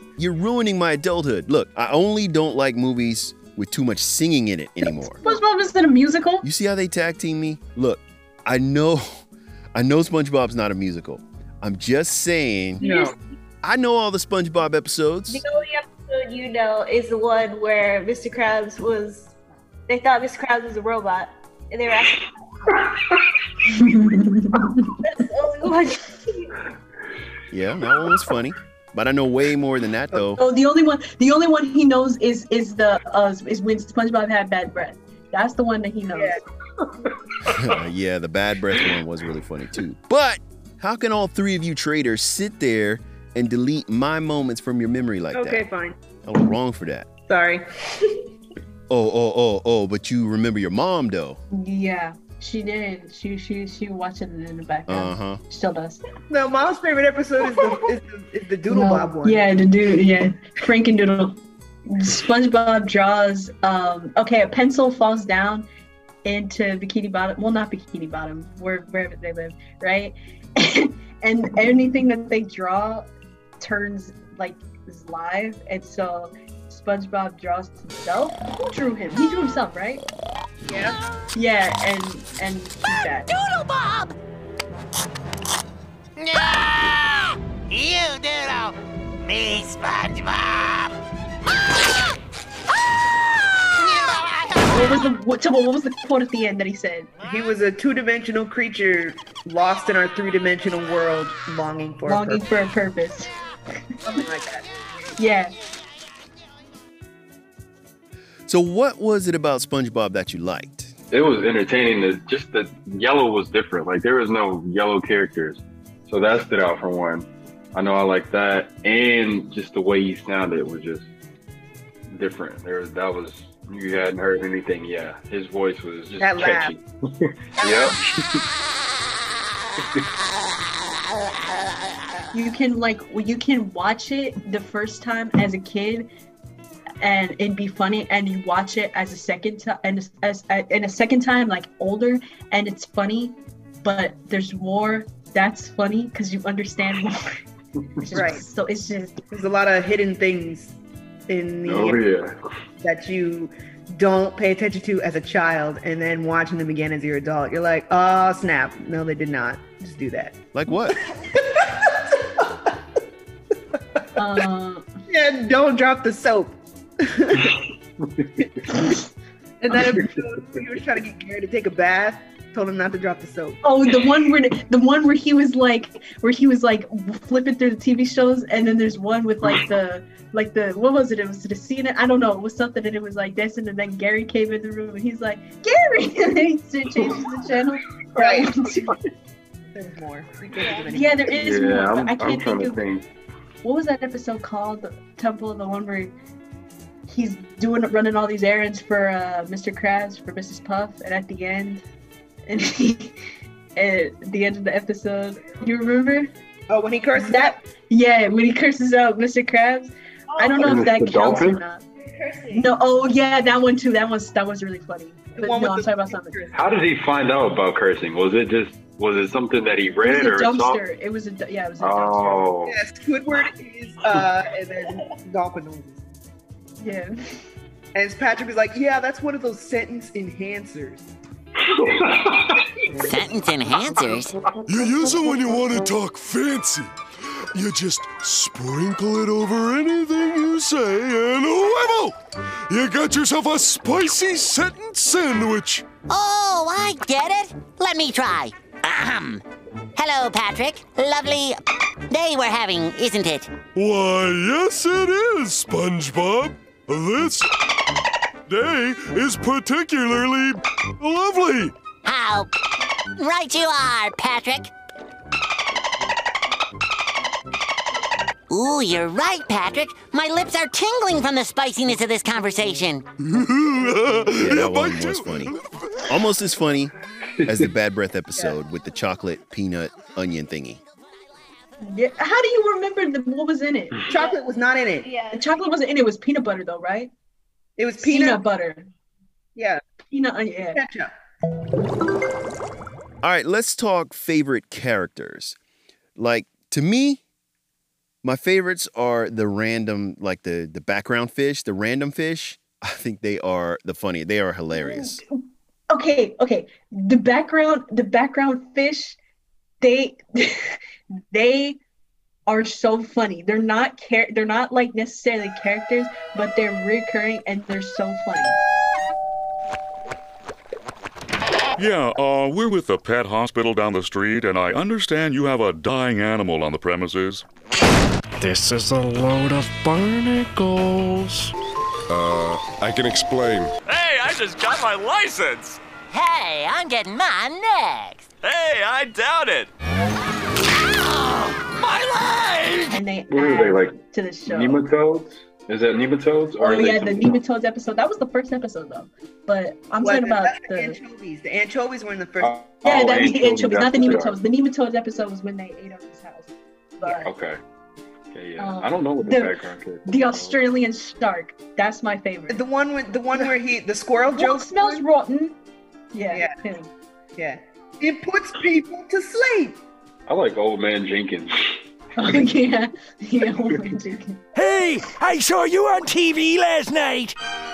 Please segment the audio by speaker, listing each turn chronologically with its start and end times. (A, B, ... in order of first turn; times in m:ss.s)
0:00.2-0:05.2 A
0:05.2-0:06.4 B
0:06.4-0:09.2 A
0:09.7-0:12.8 A
0:12.8-0:13.1 C
0:12.8-0:13.1 D
0:13.6-0:15.4 A
0:15.3-0:19.3 D
0:19.9-0:22.3 D
0:23.7-0:24.9 B
0:25.0-0:26.5 D
0:27.5-0:30.4 A
0:30.4-0:36.4 B
0:36.1-0:36.4 C
0:37.5-0:45.6 A
0:45.3-0:46.0 C
0:46.2-0:47.1 A
0:47.3-0:47.6 C
0:48.9-0:51.4 A
0:51.5-0:56.0 B
0:54.9-0:55.4 A
0:56.3-0:59.5 C
0:58.7-1:05.6 B
1:06.2-1:13.1 B
1:13.6-1:20.0 B
1:20.7-1:20.9 C
1:21.3-1:23.3 B
1:23.3-1:24.2 E
1:26.2-1:30.8 E
1:33.8-1:34.1 E
1:34.7-1:37.1 B
1:37.2-1:42.4 C
1:42.0-1:43.3 B
1:44.0-1:44.6 C
1:45.2-1:45.5 B
1:48.5-1:50.9 A
1:51.1-2:01.0 F
2:02.1-2:08.4 F
2:06.2-2:06.7 C
2:07.6-2:08.0 C
2:12.3-2:16.1 B
2:17.0-2:27.4 B
2:28.0-2:29.2 B
2:28.1-2:28.4 C
2:29.3-2:30.8 C
2:31.3-2:32.0 C
2:31.6-2:32.3 F
2:32.8-2:40.4 C
2:40.5-2:41.0 A
2:41.4-2:42.4 C
2:44.2-2:44.8 B
2:45.1-2:47.6 C
2:49.6-2:53.6 C
2:53.6-3:09.0 B
3:08.2-3:08.5 C
3:09.7-3:11.3 C
3:10.6-3:10.9 D
3:10.9-3:12.8 B
3:11.3-3:13.0 F
3:13.6-3:16.1 B
3:17.1-3:21.8 B
3:22.5-3:23.2 B
3:23.8-3:26.3 B
3:26.7-3:27.6 C
3:27.2-3:31.8 B
3:30.3-3:30.6 D
3:30.6-3:31.6 F
3:32.0-3:32.7 D
3:32.5-3:36.4 B
3:35.4-3:36.6 C
3:36.5-3:40.8 F
3:40.0-3:42.5 B
3:41.8-3:42.8 F
3:42.7-3:46.0 C
3:46.8-3:47.1 B
3:47.9-3:51.1 C
3:51.6-3:52.6 F
3:53.1-3:54.3 E
3:54.7-3:56.9 G
3:57.5-4:02.1 G
4:02.7-4:06.0 G
4:06.0-4:09.4 E
4:10.0-4:11.6 E
4:12.1-4:13.5 E
4:13.7-4:17.5 G
4:18.5-4:21.7 G
4:22.0-4:22.5 E
4:23.2-4:24.7 E
4:28.5-4:33.0 E
4:33.2-4:36.1 G
4:34.4-4:35.5 A
4:36.1-4:36.9 A
4:37.4-4:40.8 A
4:41.8-4:44.0 B
4:44.1-4:45.1 C
4:44.1-4:44.4 D
4:45.0-4:45.5 D
4:45.3-4:47.1 B
4:47.8-4:48.4 C
4:48.0-4:48.9 B
4:49.6-4:49.8 C
4:50.1-4:50.8 B
4:50.7-4:51.1 C
4:53.2-4:55.6 A
4:56.2-4:57.2 A
4:58.2-5:05.2 A
5:04.8-5:05.2 B
5:05.9-5:09.2 B
5:09.8-5:10.8 B
5:11.3-5:11.8 B
5:12.5-5:18.6 B
5:21.8-5:27.4 H
5:28.4-5:31.4 I
5:32.1-5:33.7 G
5:33.8-5:35.8 J
5:36.1-5:38.3 E
5:38.4-5:39.7 J
5:41.7-5:43.0 J
5:42.9-5:44.8 B
5:43.3-5:47.4 F
5:46.6-5:51.0 B
5:50.0-5:52.6 C
5:52.4-5:54.4 F
5:52.8-5:57.3 B
5:57.2-5:57.6 F
5:58.3-6:00.6 F
5:58.6-5:59.5 B
6:00.0-6:02.6 B
6:02.5-6:05.0 C
6:04.3-6:05.6 B
6:06.1-6:06.9 B
6:07.4-6:09.8 C
6:10.3-6:11.7 F
6:12.2-6:14.4 B